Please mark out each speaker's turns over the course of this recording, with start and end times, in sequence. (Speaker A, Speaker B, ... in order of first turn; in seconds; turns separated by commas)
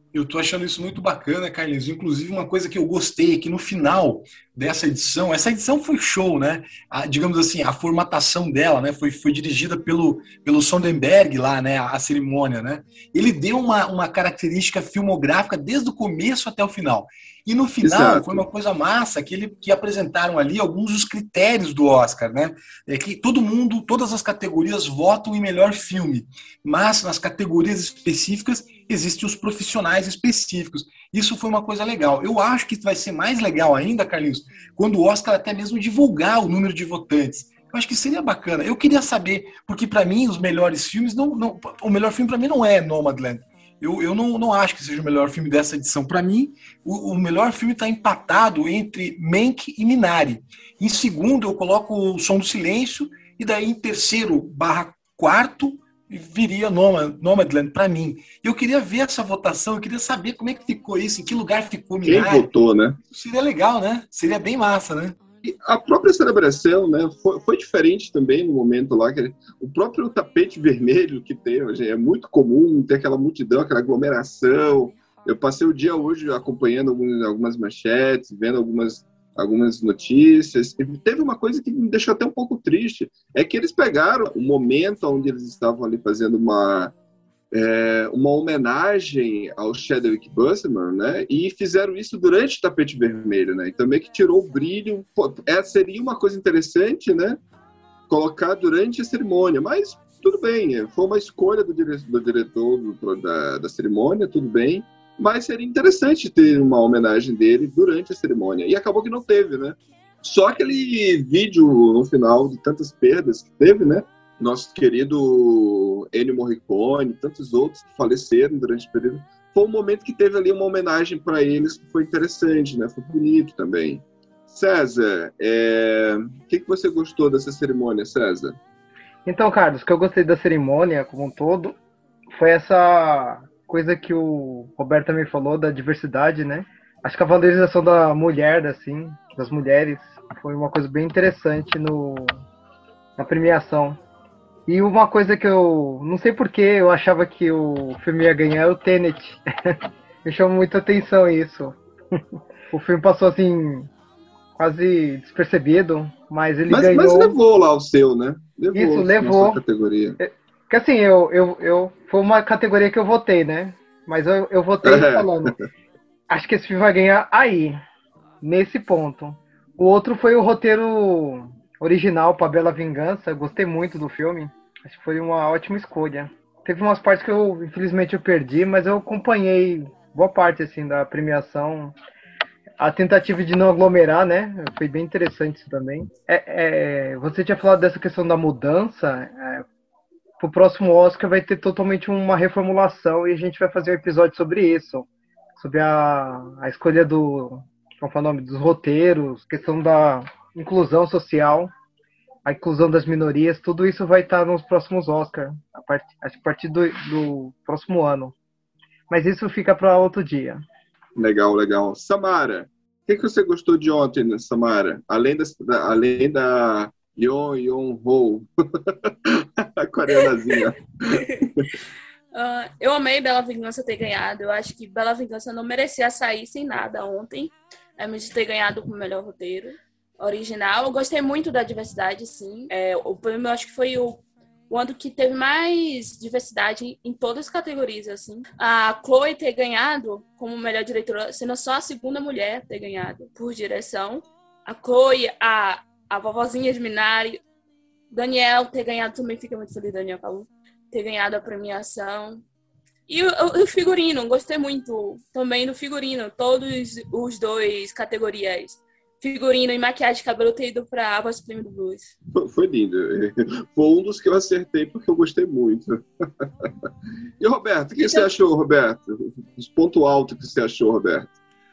Speaker A: 0.1-62.5, Speaker B: 17.8-18.4, Speaker B: 62.0-63.0, Speaker A: 63.1-65.2, Speaker B: 65.4-86.9, Speaker B: 87.5-97.4, Speaker B: 98.1-128.6, Speaker C: 129.2-131.8, Speaker C: 132.3-142.3, Speaker C: 143.2-144.0, Speaker C: 144.7-151.7, Speaker C: 152.7-153.9, Speaker C: 154.6-157.3, Speaker B: 156.7-160.2, Speaker C: 158.7-159.6, Speaker C: 160.2-165.5, Speaker B: 164.8-165.5, Speaker C: 166.3-167.8, Speaker C: 168.4-181.9, Speaker C: 182.8-189.6, Speaker C: 190.4-195.1, Speaker C: 195.6-201.7, Speaker C: 202.4-208.3, Speaker C: 209.1-210.6, Speaker B: 211.2-221.7, Speaker D: 222.3-247.4, Speaker D: 248.1-252.4, Speaker D: 253.1-262.1, Speaker B: 262.4-266.7, Speaker B: 267.4-271.3, Speaker D: 268.0-268.3